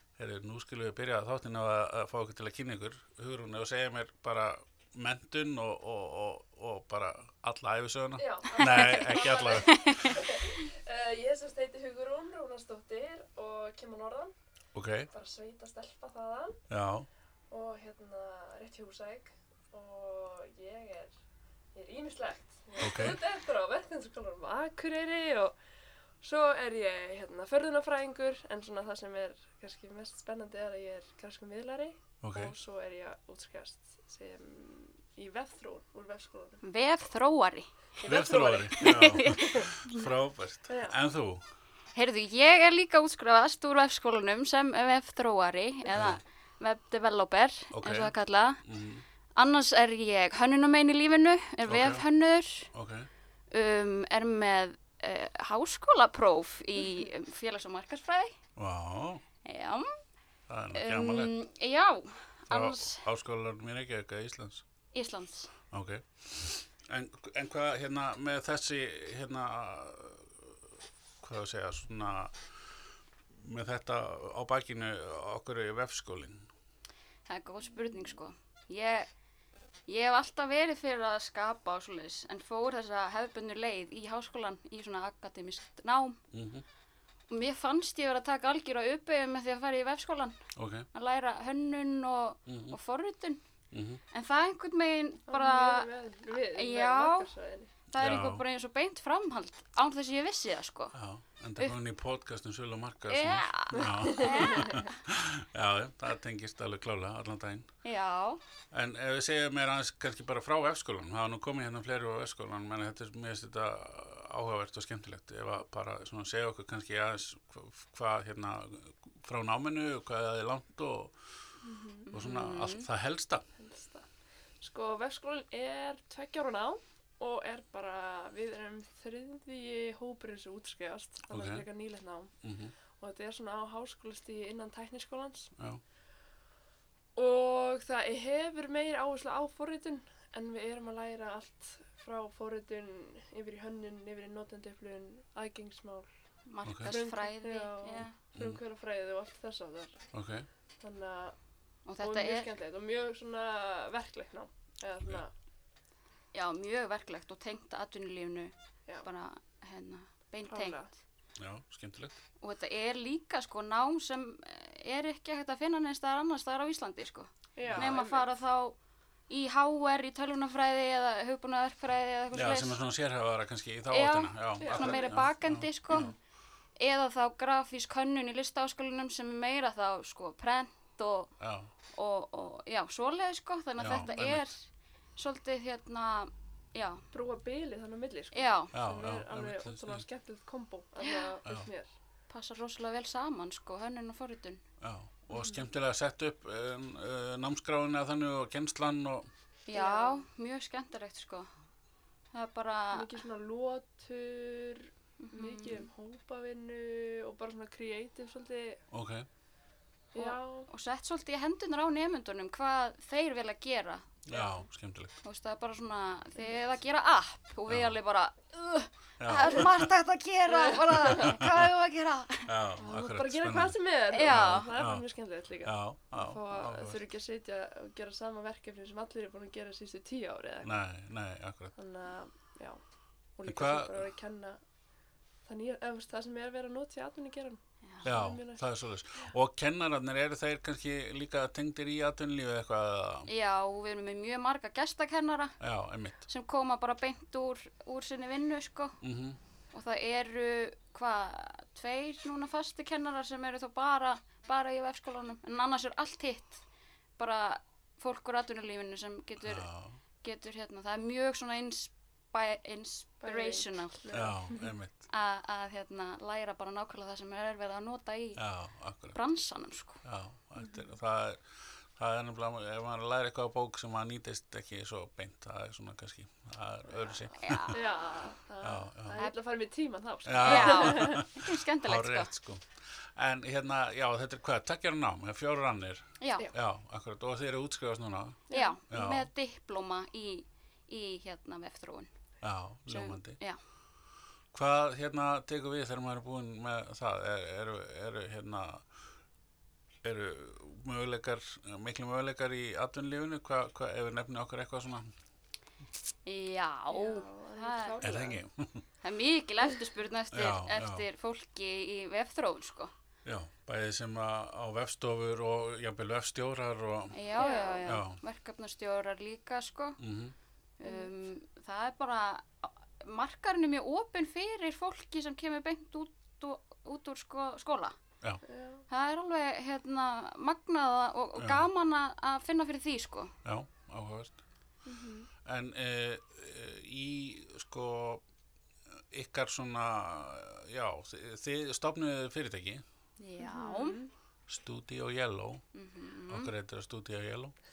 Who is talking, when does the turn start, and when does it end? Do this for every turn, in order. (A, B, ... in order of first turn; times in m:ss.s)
0:00.2-0:09.9 A
0:08.2-0:14.3 B
0:08.6-0:10.3 C
0:14.7-0:15.1 A
0:15.1-0:16.6 B
0:16.7-0:17.1 A
0:17.5-0:21.2 B
0:21.8-0:25.5 B
0:22.8-0:23.2 A
0:26.2-0:36.6 B
0:32.2-0:32.6 A
0:36.6-0:37.7 C
0:38.0-0:39.9 B
0:38.0-0:41.4 A
0:38.7-0:40.0 C
0:40.7-0:41.0 B
0:42.0-0:48.6 C
0:45.9-0:46.2 A
0:47.7-0:49.0 A
0:49.4-0:52.7 C
0:51.7-0:52.1 A
0:52.7-0:53.1 A
0:53.5-0:58.4 C
0:58.6-0:59.2 A
0:59.4-1:00.0 C
1:00.5-1:01.3 A
1:00.7-1:03.1 C
1:02.5-1:04.6 A
1:04.9-1:05.5 C
1:05.7-1:10.6 A
1:11.2-1:12.4 A
1:13.3-1:16.5 A
1:17.3-1:19.1 C
1:19.9-1:26.2 C
1:26.3-1:26.6 A
1:27.3-1:33.4 C
1:30.6-1:30.9 A
1:32.5-1:32.8 A
1:33.7-1:34.0 A
1:34.1-1:37.3 C
1:35.3-1:37.7 B
1:37.9-1:41.0 C
1:38.0-1:38.4 A
1:40.9-1:47.7 A
1:43.1-1:45.0 C
1:43.8-1:44.7 B
1:47.8-1:48.4 C
1:48.7-2:01.2 A
2:01.6-2:02.1 B
2:02.1-2:02.9 C
2:02.1-2:03.4 A
2:03.6-2:04.1 B
2:04.6-2:12.3 B
2:11.3-2:11.7 A
2:12.4-2:12.7 A
2:13.0-2:15.5 B
2:15.6-2:15.8 A
2:17.2-2:26.1 B
2:26.5-2:28.2 C
2:26.6-2:27.0 A
2:26.8-2:30.0 B
2:28.4-2:28.6 A
2:30.1-2:30.5 A
2:30.8-2:31.4 B
2:31.9-2:32.5 C
2:32.0-2:35.3 B
2:36.3-2:40.8 C
2:40.5-2:40.9 B
2:41.4-2:42.2 A
2:42.4-2:48.8 C
2:47.6-2:48.3 B
2:47.6-2:48.0 A
2:49.3-2:52.8 C
2:52.3-2:56.2 A
2:53.9-2:56.1 C
2:54.6-2:55.1 B
2:56.8-3:01.3 C
3:01.4-3:01.7 A
3:01.9-3:04.6 C
3:03.8-3:04.5 A
3:05.2-3:07.0 C
3:07.1-3:11.9 B
3:08.3-3:08.7 C
3:08.7-3:10.0 A
3:11.0-3:11.4 C
3:12.3-3:14.6 C
3:14.8-3:19.3 A
3:19.7-3:21.5 C
3:19.7-3:20.2 B
3:22.3-3:23.2 C
3:22.9-3:28.8 B
3:25.2-3:25.9 C
3:28.9-3:29.3 A
3:30.1-3:30.7 B
3:30.2-3:34.1 C
3:34.3-3:35.1 A
3:34.3-3:34.6 B
3:35.2-3:42.5 C
3:36.4-3:36.7 B
3:37.7-3:38.0 A
3:39.2-3:39.9 A
3:40.5-3:41.4 B
3:41.0-3:41.7 A
3:42.5-3:45.0 A
3:42.8-3:50.7 B
3:44.1-3:44.7 C
3:45.6-3:47.0 A
3:50.6-3:51.7 A
3:51.8-3:52.8 B
3:53.4-3:54.6 B
3:53.5-3:54.1 A
3:55.5-3:58.6 B
3:58.0-4:03.3 A
4:03.3-4:05.6 C
4:05.6-4:06.2 A
4:06.3-4:09.0 C
4:09.0-4:09.4 A
4:09.7-4:16.6 C
4:17.2-4:19.7 C
4:19.4-4:20.0 A
4:20.2-4:24.0 C
4:23.2-4:24.7 B
4:24.1-4:25.0 A
4:25.1-4:28.4 C
4:28.4-4:29.2 A
4:29.1-4:30.0 C
4:30.0-4:31.4 A
4:32.0-4:37.8 A
4:37.3-4:38.1 C
4:37.7-4:41.3 B
4:38.6-4:39.2 A
4:40.3-4:49.3 A
4:40.4-4:42.3 C
4:46.2-4:46.5 C
4:48.5-4:48.8 B
4:48.5-4:52.1 C
4:52.4-4:53.4 A
4:52.9-4:53.6 C
4:54.5-4:58.9 A
5:00.0-5:05.1 A
5:06.3-5:08.0 C
5:06.9-5:08.4 B
5:08.0-5:08.8 A
5:09.0-5:12.9 C
5:10.3-5:11.0 A
5:13.2-5:17.3 A
5:17.1-5:20.0 C
5:17.4-5:17.9 B
5:17.9-5:18.2 A
5:20.0-5:20.4 A
5:20.8-5:28.0 C
5:20.8-5:21.1 B
5:28.4-5:28.8 B
5:28.9-5:33.3 C
5:31.4-5:31.7 A
5:33.4-5:34.4 A
5:34.9-5:35.3 B
5:35.4-5:38.2 A
5:39.1-5:42.8 A
5:43.2-5:44.0 C
5:43.4-5:44.1 B
5:44.5-5:45.6 A
5:45.7-5:46.5 C
5:46.3-5:47.5 A